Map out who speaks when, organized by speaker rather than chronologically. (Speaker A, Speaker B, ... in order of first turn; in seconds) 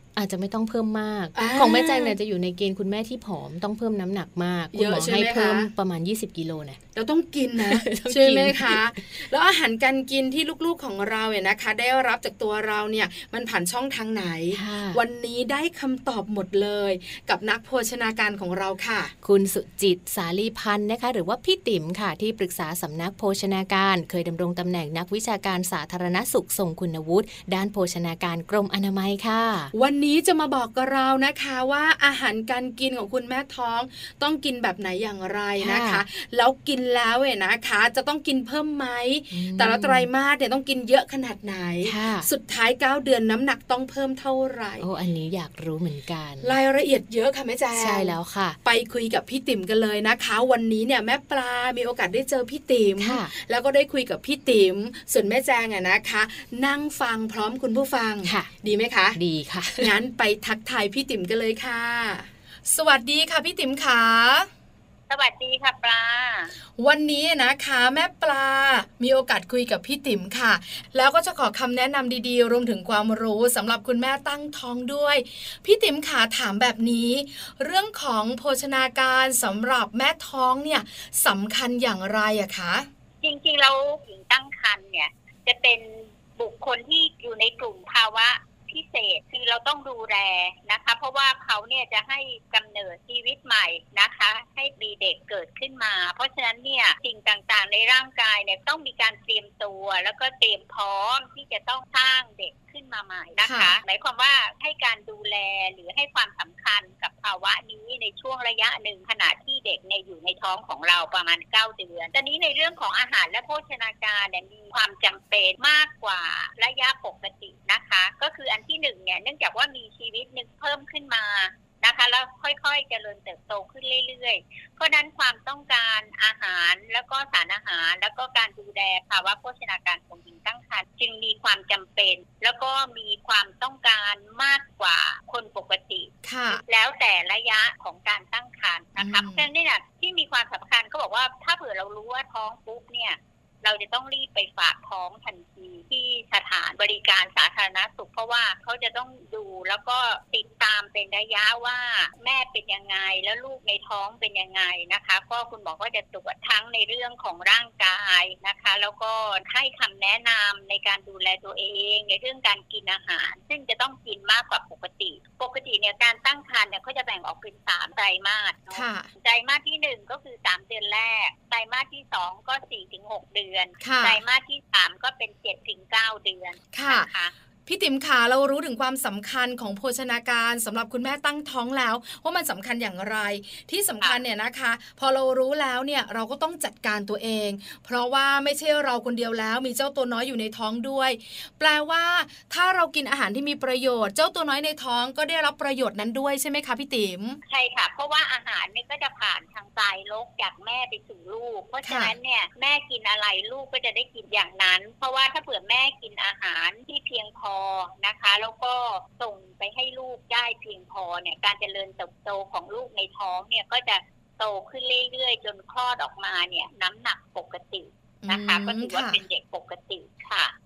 Speaker A: 0.1-6.8, 7.6-9.0, 14.5-15.0, 19.2-29.7, 35.6-36.0, 39.3-40.1, 41.8-42.3, 44.8-46.5, 47.7-48.6, 53.0-53.3, 58.2-58.5, 59.1-59.9
Speaker B: 1.3-2.1, 4.7-5.7, 6.9-19.1, 29.7-44.9, 46.4-59.2, 59.8-64.5, 66.8-82.9, 103.4-103.8, 136.2-136.6, 139.0-139.4, 168.7-169.1, 173.8-174.2, 176.7-177.1, 177.7-197.4, 201.8-202.1, 218.2-219.2
Speaker C: 65.1-66.5, 83.2-177.3, 197.5-220.5